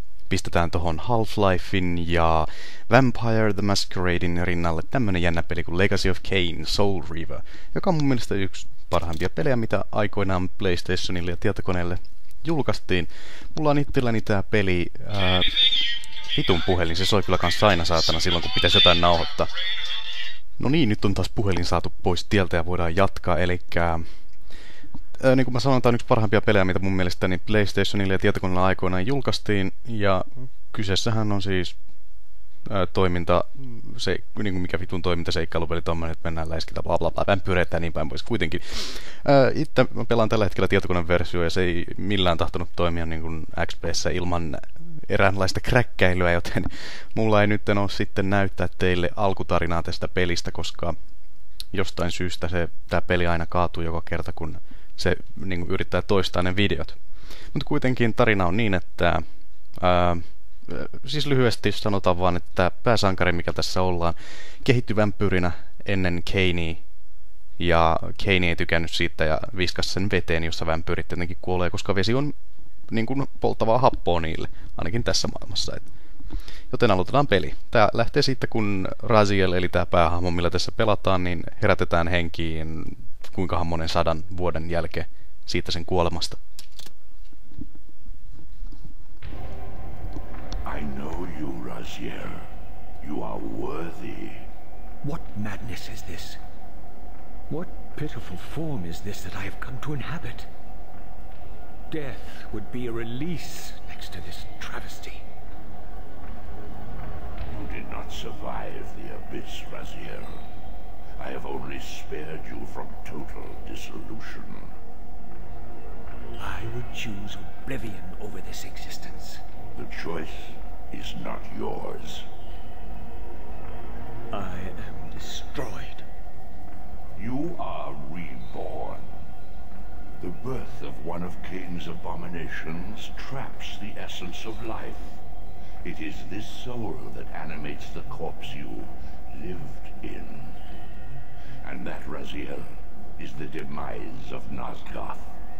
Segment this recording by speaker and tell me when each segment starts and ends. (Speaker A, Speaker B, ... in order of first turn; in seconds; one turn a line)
Speaker A: 0.3-19.5
Speaker A: 20.6-24.0
Speaker A: 25.2-31.8
Speaker A: 32.6-50.9
Speaker A: 51.7-57.0
Speaker A: 57.5-59.2
Speaker A: 59.8-66.8
Speaker A: 67.6-72.3
Speaker A: 72.9-75.9
Speaker A: 76.7-86.4
Speaker B: 90.6-92.5
Speaker B: 93.0-94.5
Speaker C: 95.0-96.4
Speaker C: 97.5-100.5
Speaker C: 101.9-105.2
Speaker B: 107.5-110.4
Speaker B: 111.2-114.7
Speaker C: 116.4-119.4
Speaker B: 119.7-122.3
Speaker C: 124.3-126.0
Speaker B: 127.1-129.2
Speaker B: 130.2-135.2
Speaker B: 135.8-140.6
Speaker B: 141.6-145.4